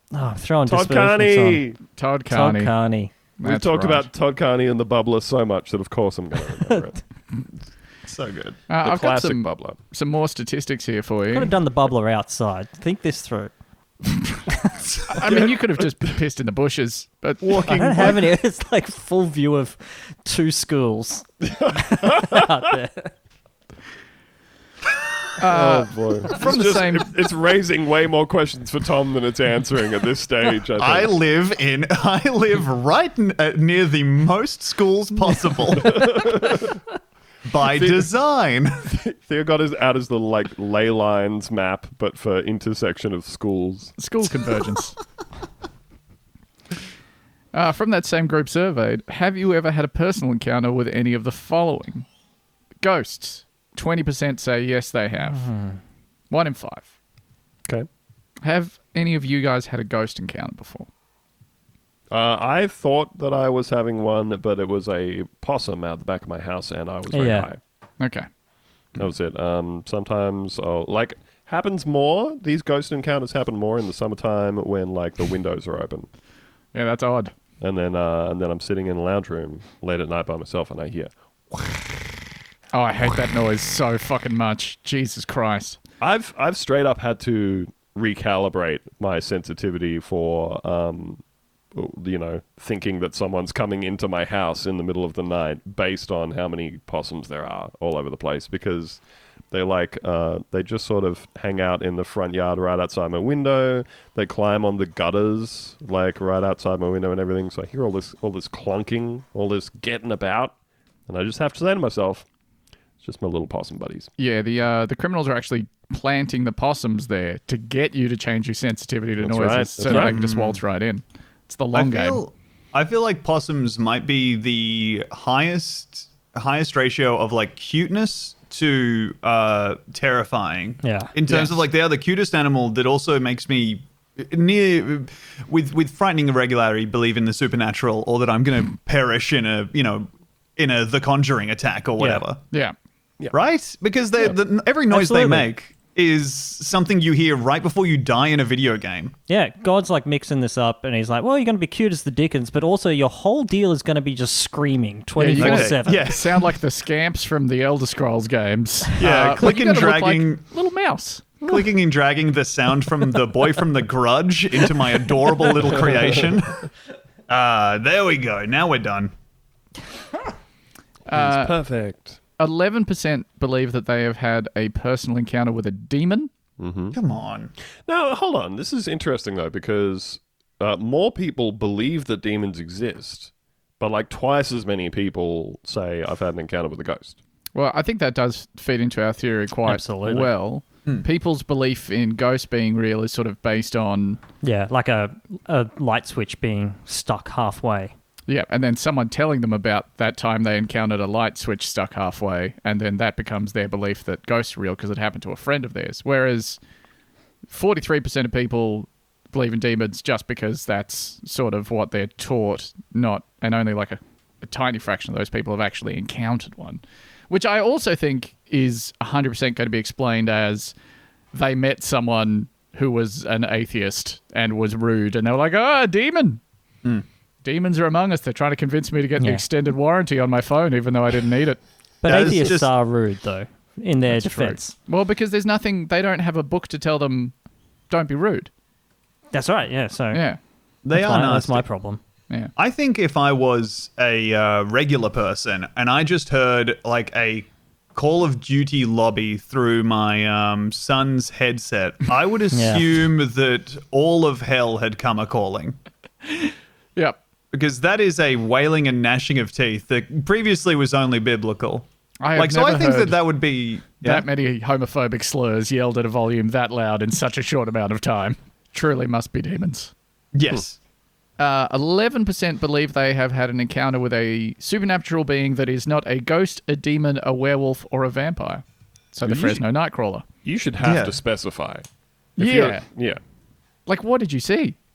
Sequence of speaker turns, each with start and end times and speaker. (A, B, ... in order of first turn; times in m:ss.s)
0:00.1-0:01.6 A
0:00.7-0:01.8 B
0:02.0-0:02.7 C
0:02.3-0:03.1 A
0:03.4-0:04.1 C
0:03.4-0:07.0 B
0:08.0-0:08.6 D
0:08.7-0:11.5 C
0:08.8-0:09.8 B
0:11.3-0:13.5 A
0:15.1-0:18.1 C
0:17.6-0:18.1 B
0:17.7-0:23.1 A
0:21.4-0:22.5 B
0:25.4-0:27.2 C
0:25.4-0:31.1 B
0:30.8-0:36.2 D
0:35.7-0:36.7 B
0:37.4-0:38.9 D
0:37.6-0:38.1 B
0:38.9-0:44.0 B
0:44.0-0:45.0 C
0:47.5-0:52.0 C
0:52.8-0:55.5 C
0:55.3-0:55.8 A
0:56.3-0:56.9 C
0:58.4-1:00.9 C
1:02.1-1:07.6 B
1:07.1-1:07.5 A
1:08.0-1:08.3 C
1:09.0-1:16.1 B
1:16.7-1:17.3 C
1:17.6-1:21.8 B
1:22.7-1:25.8 C
1:26.0-1:31.2 B
1:31.7-1:50.5 B
1:51.1-1:52.2 B
1:53.0-1:54.1 B
1:54.2-2:02.2 C
1:59.2-2:00.2 B
1:59.9-2:00.6 D
2:01.7-2:22.4 D
2:10.8-2:11.1 A
2:22.0-2:22.2 A
2:23.3-2:29.1 D
2:24.9-2:25.5 A
2:29.3-2:36.0 A
2:35.2-2:41.3 C
2:35.4-2:36.6 D
2:39.0-2:40.4 D
2:41.4-2:46.7 D
2:47.3-2:49.1 D
2:51.1-2:51.5 C
2:51.1-2:52.2 B
2:52.4-2:56.3 C
2:56.6-2:57.0 B
2:56.9-2:57.5 D
2:57.8-3:07.2 B
3:07.5-3:14.2 C
3:09.6-3:10.3 A
3:14.4-3:17.9 A
3:18.3-3:26.6 C
3:27.5-3:40.7 C
3:41.3-3:46.4 C
3:47.4-3:51.6 C
3:52.0-3:54.7 A
3:52.0-3:52.7 D
3:54.1-3:57.3 C
3:57.9-3:58.5 C
3:59.3-4:00.2 A
4:00.1-4:00.4 C
4:00.8-4:01.6 D
4:00.9-4:02.0 A
4:02.6-4:15.8 D
4:12.5-4:12.9 A
4:16.3-4:17.2 C
4:17.5-4:24.2 D
4:22.2-4:23.2 C
4:24.0-4:29.9 C
4:30.3-4:30.8 D
4:31.4-4:38.6 C
4:39.1-4:40.2 C
4:39.3-4:39.6 B
4:40.4-4:41.8 B
4:40.8-4:41.2 D
4:42.4-4:42.8 C
4:42.4-4:43.2 B
4:43.9-4:44.7 C